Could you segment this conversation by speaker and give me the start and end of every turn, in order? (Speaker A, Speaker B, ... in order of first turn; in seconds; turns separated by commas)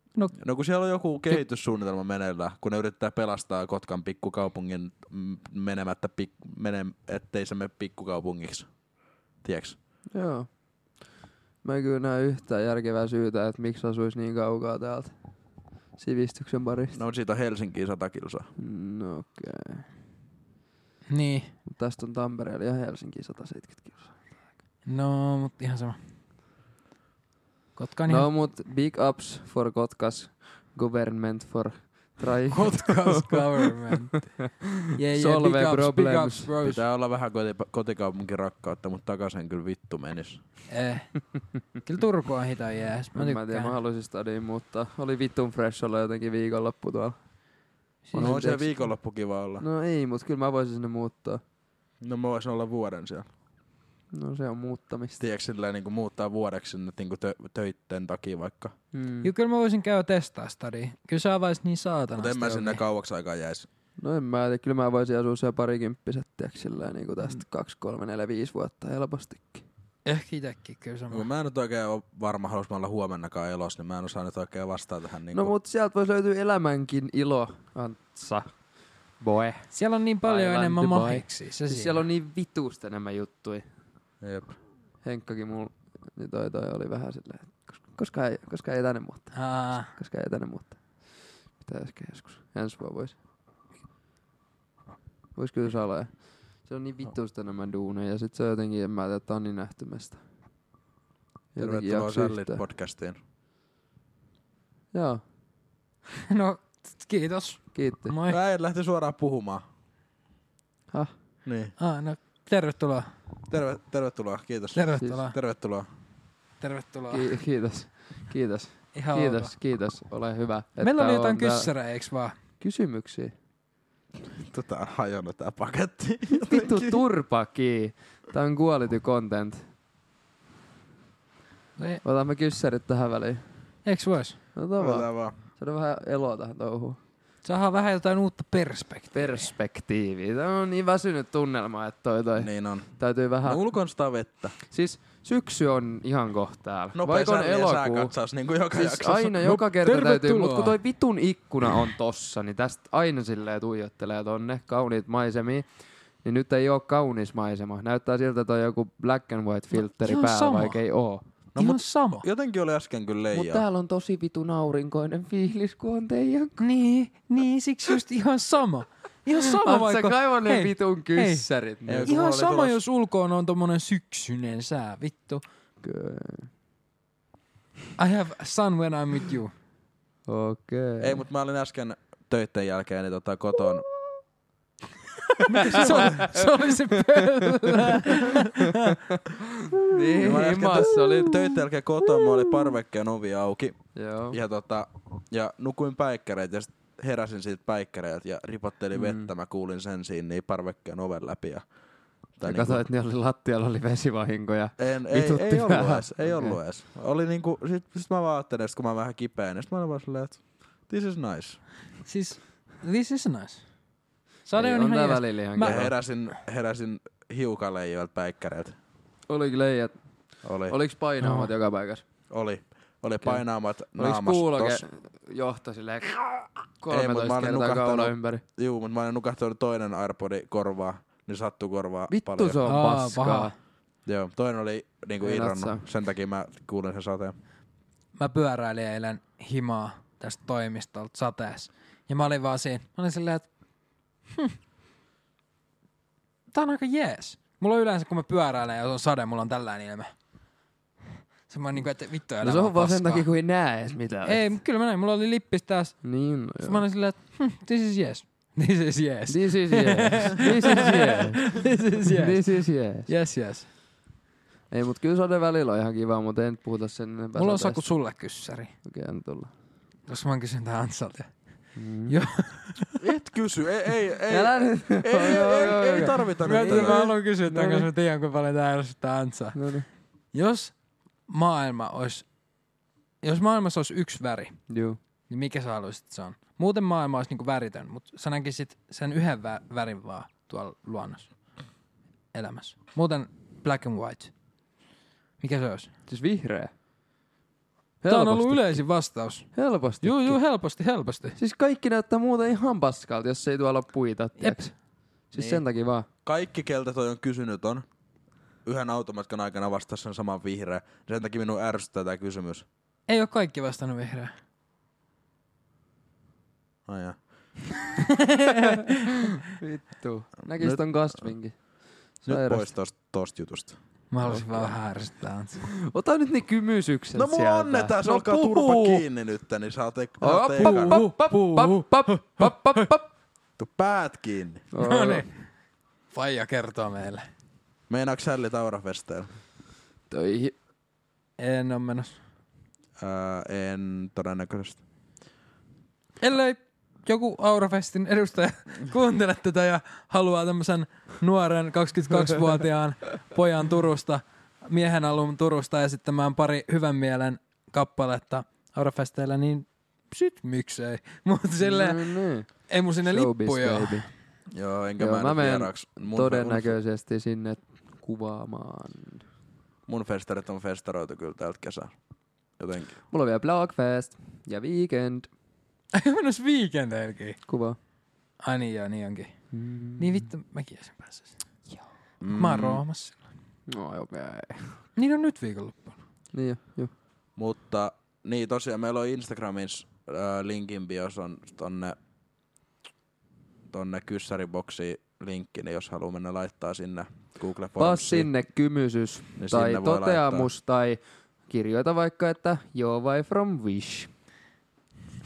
Speaker A: 0.4-8.8, Speaker A: 9.4-9.8, Speaker B: 10.1-11.0, Speaker B: 11.6-15.1, Speaker B: 16.0-17.0, Speaker A: 16.9-18.5, Speaker B: 18.6-19.9, Speaker C: 21.1-21.5, Speaker B: 21.7-24.3, Speaker C: 24.9-26.0, Speaker C: 27.8-28.3, Speaker B: 28.1-36.5, Speaker C: 32.5-34.4, Speaker C: 35.0-36.8, Speaker A: 36.6-40.4, Speaker C: 40.7-43.8, Speaker B: 43.1-47.2, Speaker C: 48.1-48.4, Speaker B: 48.1-48.9, Speaker A: 48.2-49.6, Speaker B: 49.6-51.4, Speaker A: 52.0-53.3, Speaker B: 54.1-55.2, Speaker A: 55.2-58.7, Speaker B: 58.9-59.3, Speaker C: 59.2-62.8, Speaker A: 62.1-63.7, Speaker B: 64.0-69.7, Speaker C: 70.0-71.3, Speaker A: 71.1-75.5, Speaker B: 75.3-78.5, Speaker B: 79.2-79.7, Speaker C: 79.7-82.0, Speaker B: 80.2-83.7, Speaker A: 84.2-84.6, Speaker B: 85.0-93.2, Speaker C: 89.3-89.9, Speaker B: 95.4-100.2, Speaker B: 101.5-102.6, Speaker A: 101.6-103.2, Speaker B: 104.9-105.2, Speaker C: 106.3-108.4, Speaker B: 107.7-108.2, Speaker A: 108.3-109.6, Speaker A: 111.5-111.8, Speaker C: 111.8-113.1, Speaker A: 113.5-115.9, Speaker C: 114.8-115.4, Speaker C: 116.6-117.3, Speaker B: 117.1-121.7, Speaker C: 119.0-119.5, Speaker C: 120.8-122.3, Speaker B: 122.6-123.3, Speaker A: 124.3-127.0, Speaker B: 126.3-129.6, Speaker B: 132.0-133.4, Speaker C: 133.8-134.4, Speaker B: 134.6-137.0, Speaker A: 134.8-135.4, Speaker C: 137.4-139.5, Speaker B: 139.1-143.6, Speaker A: 142.4-142.9, Speaker A: 143.5-144.6, Speaker B: 144.7-148.1, Speaker A: 146.9-149.6, Speaker B: 148.7-155.7, Speaker C: 149.5-150.8, Speaker B: 156.2-161.2, Speaker C: 160.0-160.8, Speaker C: 161.6-162.3, Speaker A: 161.6-163.6, Speaker B: 163.3-166.6, Speaker C: 166.6-171.5, Speaker B: 169.4-172.4, Speaker A: 171.9-172.8, Speaker C: 172.0-175.4, Speaker B: 175.8-176.5, Speaker C: 178.0-179.5, Speaker B: 180.3-181.2, Speaker A: 181.0-183.9, Speaker C: 185.4-189.0, Speaker B: 185.5-191.5, Speaker A: 185.6-186.2, Speaker A: 190.2-193.8, Speaker B: 193.9-194.4, Speaker A: 194.3-201.7, Speaker B: 198.9-199.3, Speaker A: 202.4-202.8, Speaker B: 202.4-206.6, Speaker A: 204.8-211.6, Speaker C: 212.1-213.6, Speaker C: 214.5-215.9, Speaker B: 214.6-215.9, Speaker A: 215.6-218.8, Speaker B: 219.3-219.9, Speaker A: 220.4-220.8, Speaker B: 220.7-222.0, Speaker C: 221.2-221.5, Speaker A: 222.3-224.8, Speaker B: 223.9-228.4, Speaker A: 226.9-232.6, Speaker B: 232.1-233.5, Speaker C: 232.7-233.5, Speaker A: 234.1-237.3, Speaker B: 235.2-235.8, Speaker C: 238.2-243.5, Speaker C: 246.5-250.1, Speaker C: 251.5-253.3, Speaker B: 252.4-254.4, Speaker C: 254.2-263.7, Speaker B: 256.0-256.9, Speaker B: 259.3-263.1, Speaker B: 264.7-267.9, Speaker C: 267.4-268.7, Speaker B: 268.8-269.5, Speaker C: 270.1-271.6, Speaker B: 271.8-272.1, Speaker C: 272.1-272.9, Speaker A: 273.0-277.1, Speaker B: 274.3-277.9, Speaker C: 276.4-279.7, Speaker B: 279.5-279.9, Speaker C: 280.3-280.8, Speaker C: 281.3-282.3, Speaker C: 283.2-284.6, Speaker B: 284.7-285.0, Speaker C: 285.3-291.4, Speaker C: 292.3-294.3, Speaker C: 295.4-295.9, Speaker B: 296.1-296.7, Speaker B: 298.0-298.8, Speaker C: 298.1-301.4, Speaker B: 299.5-300.4, Speaker B: 301.4-304.8, Speaker C: 304.4-304.7, Speaker B: 305.3-306.1, Speaker A: 305.4-305.6, Speaker A: 306.2-307.9, Speaker A: 308.6-312.7, Speaker C: 313.1-314.3, Speaker A: 316.9-317.2, Speaker C: 318.3-319.2, Speaker B: 319.6-322.7, Speaker A: 320.6-321.3, Speaker A: 322.3-323.8, Speaker C: 324.1-325.6, Speaker B: 324.2-324.8, Speaker B: 325.8-329.0, Speaker A: 327.1-331.0, Speaker B: 330.2-333.1, Speaker C: 330.6-332.9, Speaker A: 333.6-334.7, Speaker B: 334.7-335.3, Speaker C: 334.8-335.3, Speaker C: 336.1-337.3, Speaker A: 337.9-339.3, Speaker B: 340.1-340.5, Speaker C: 341.4-342.2, Speaker A: 343.0-344.8, Speaker C: 346.2-364.1, Speaker B: 361.6-362.5, Speaker B: 363.0-364.1, Speaker A: 364.5-366.8, Speaker B: 365.0-369.2, Speaker A: 369.9-371.9, Speaker A: 372.6-373.0, Speaker B: 373.1-375.3, Speaker C: 375.9-377.4, Speaker B: 377.5-377.8, Speaker C: 378.4-379.3, Speaker B: 379.5-380.3, Speaker C: 380.0-381.4, Speaker A: 382.2-382.8, Speaker C: 382.3-383.2, Speaker B: 383.7-384.8, Speaker C: 385.0-386.0, Speaker B: 386.3-386.9, Speaker A: 387.4-392.0, Speaker A: 393.7-398.3, Speaker B: 397.8-404.1, Speaker A: 399.4-400.5